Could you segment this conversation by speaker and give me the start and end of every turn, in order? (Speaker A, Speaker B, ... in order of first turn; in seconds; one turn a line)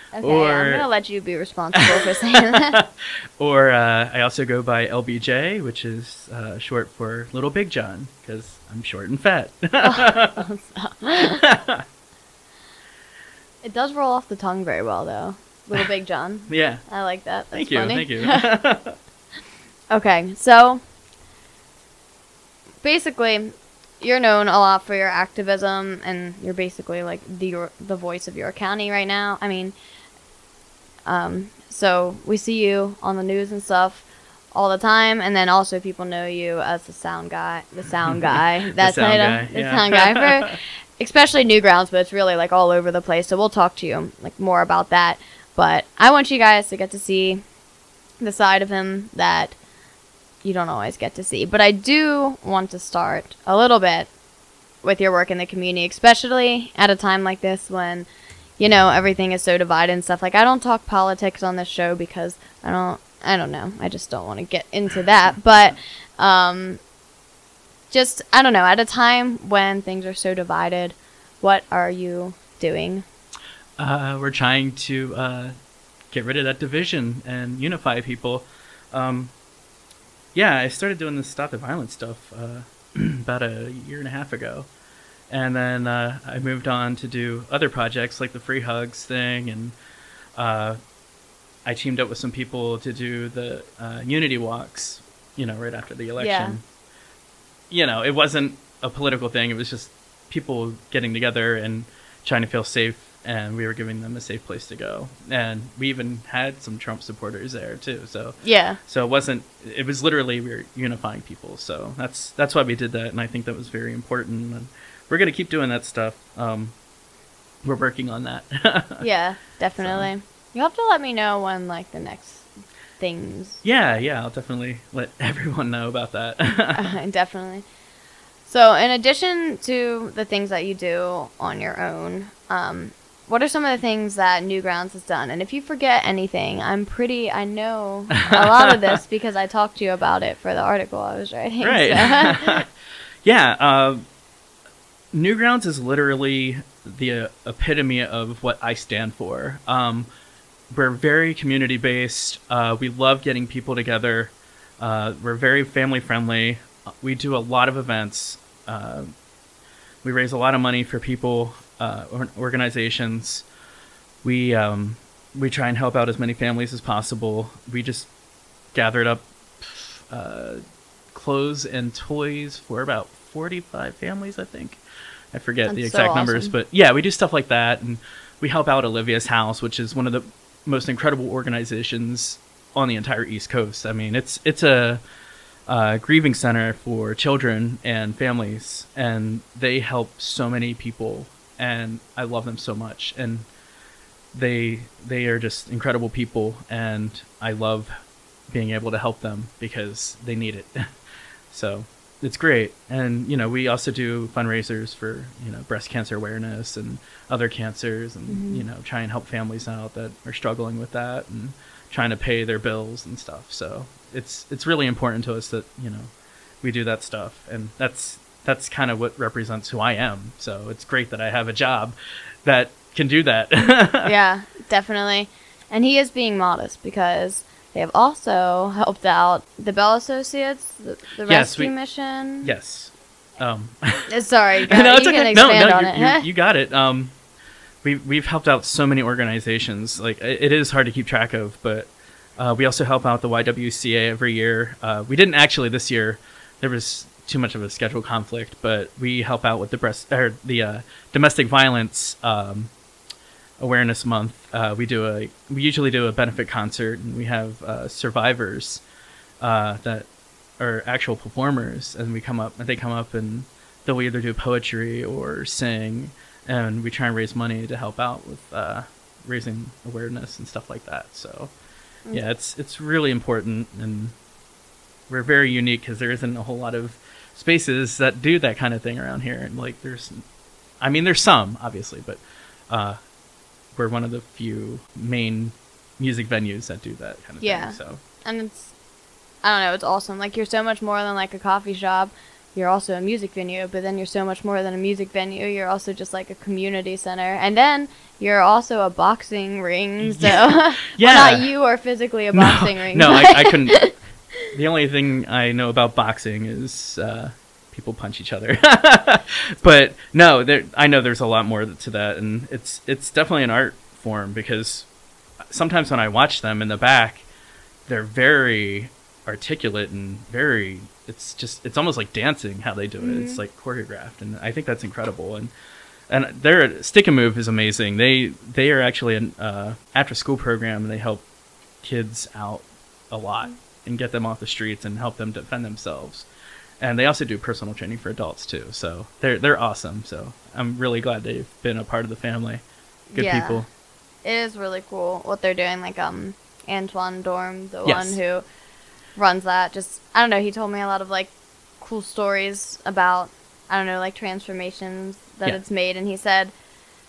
Speaker A: 0.1-2.8
Speaker B: 0.2-0.9
Speaker B: 1.8-10.4
Speaker A: 9.8-11.4
Speaker B: 11.2-11.8
Speaker A: 13.6-18.4
Speaker B: 16.5-16.9
Speaker B: 17.5-19.0
Speaker A: 19.9-20.8
Speaker A: 22.8-29.7
Speaker A: 31.1-47.4
Speaker B: 38.2-40.6
Speaker A: 48.2-49.6
Speaker A: 50.4-54.1
Speaker A: 54.8-58.1
Speaker A: 58.6-66.8
Speaker A: 67.9-73.0
Speaker B: 73.8-75.5
Speaker B: 76.1-79.3
Speaker B: 80.3-84.7
Speaker B: 85.3-89.8
Speaker B: 90.4-90.8
Speaker B: 91.7-96.6
Speaker A: 96.2-96.6
Speaker B: 97.7-116.8
Speaker A: 108.4-108.8
Speaker B: 117.6-119.0
Speaker A: 119.0-122.5
Speaker B: 119.8-120.1
Speaker A: 123.0-123.6
Speaker B: 123.6-126.9
Speaker A: 126.8-127.7
Speaker A: 128.5-142.6
Speaker B: 141.6-142.7
Speaker B: 143.2-144.0
Speaker B: 145.1-150.1
Speaker B: 150.7-159.2
Speaker B: 160.0-163.4
Speaker B: 164.2-168.1
Speaker B: 168.7-170.6
Speaker B: 171.1-174.8
Speaker B: 175.3-185.0
Speaker A: 175.7-176.6
Speaker B: 185.7-193.5
Speaker B: 194.3-197.9
Speaker B: 198.5-200.9
Speaker B: 201.5-216.1
Speaker A: 208.3-208.6
Speaker B: 216.6-224.1
Speaker A: 224.1-232.5
Speaker B: 231.3-231.8
Speaker B: 232.4-234.1
Speaker A: 234.1-236.3
Speaker B: 234.7-237.1
Speaker B: 237.8-252.7
Speaker B: 253.6-258.8
Speaker B: 259.4-260.1
Speaker B: 260.6-271.5
Speaker B: 272.1-274.1
Speaker B: 275.1-280.2
Speaker B: 280.8-283.0
Speaker B: 283.8-288.0
Speaker A: 287.4-288.7
Speaker A: 289.4-303.9
Speaker B: 300.0-301.5
Speaker B: 302.3-314.9
Speaker B: 315.5-317.2
Speaker B: 317.9-325.5
Speaker A: 323.0-323.4
Speaker B: 326.1-331.2
Speaker B: 331.8-336.3
Speaker B: 336.8-342.6
Speaker A: 343.1-343.6
Speaker B: 343.1-343.7
Speaker A: 344.2-348.4
Speaker B: 347.9-348.2
Speaker A: 349.2-356.5